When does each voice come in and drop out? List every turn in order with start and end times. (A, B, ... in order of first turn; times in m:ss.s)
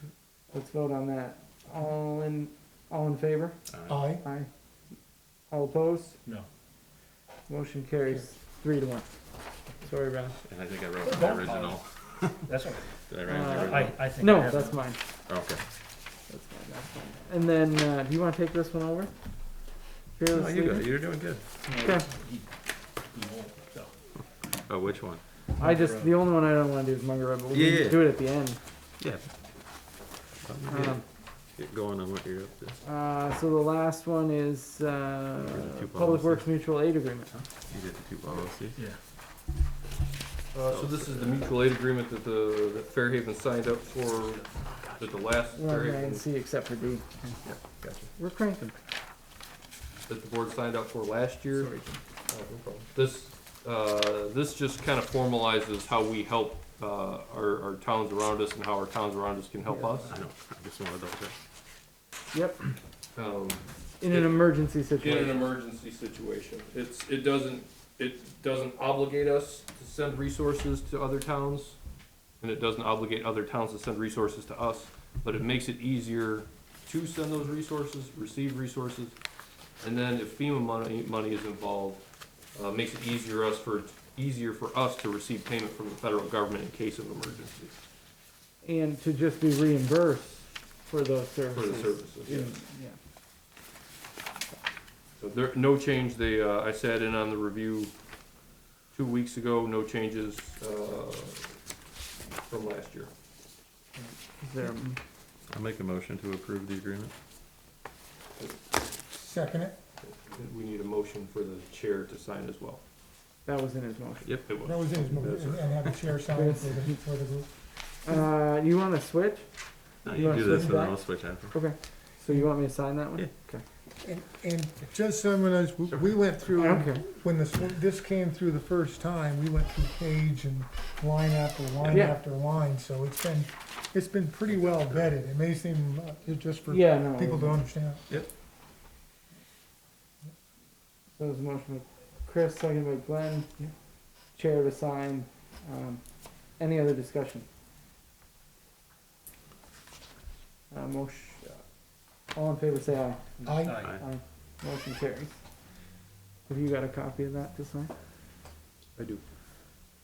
0:00.5-0:03.6 A
0:03.7-0:04.0 B
0:03.9-0:04.2 C
0:04.2-0:04.5 A
0:05.5-0:06.2 A
0:07.5-0:10.4 A
0:10.4-0:14.0 B
0:11.0-0:14.8 D
0:13.3-0:15.1 A
0:15.3-0:15.6 B
0:16.3-0:19.1 A
0:20.2-0:20.9 A
0:20.3-0:21.5 B
0:21.7-0:23.9 D
0:21.8-0:22.1 A
0:24.7-0:25.2 B
0:25.6-0:26.2 D
0:25.6-0:28.6 A
0:27.5-0:28.1 B
0:29.0-0:29.3 B
0:30.4-0:31.0 B
0:30.7-0:31.0 A
0:31.6-0:32.8 B
0:32.8-0:37.4 A
0:35.4-0:36.4 B
0:37.7-0:38.8 B
0:40.5-0:46.3 E
0:40.6-0:41.5 B
0:45.5-0:47.3 A
0:47.4-0:48.1 E
0:48.2-0:48.8 A
0:50.1-1:00.1 E
0:51.5-0:52.0 A
0:59.7-1:00.1 A
1:00.1-1:01.4 B
1:02.3-1:02.8 A
1:03.2-1:11.8 E
1:04.0-1:05.5 A
1:12.4-1:19.2 E
1:19.8-1:27.7 E
1:28.6-1:33.0 A
1:31.5-1:32.6 E
1:35.2-1:37.9 E
1:38.9-1:41.6 E
1:42.5-1:43.1 E
1:44.4-1:45.0 A
1:45.5-1:47.1 B
1:49.1-1:49.8 C
1:50.0-1:52.8 E
1:53.4-1:54.3 A
1:54.4-1:55.9 E
1:54.6-1:57.5 C
1:56.3-1:57.0 A
1:58.0-2:03.6 A
2:00.0-2:01.6 B
2:00.3-2:00.9 C
2:04.0-2:18.0 C
2:06.5-2:07.0 A
2:11.9-2:12.2 A
2:16.7-2:17.6 A
2:21.2-2:23.5 A
2:24.3-2:27.5 A
2:30.7-2:31.6 A
2:32.3-2:35.4 A
2:33.4-2:34.0 D
2:33.4-2:33.8 C
2:33.8-2:34.0 B
2:36.5-2:37.9 A
2:39.0-2:39.2 E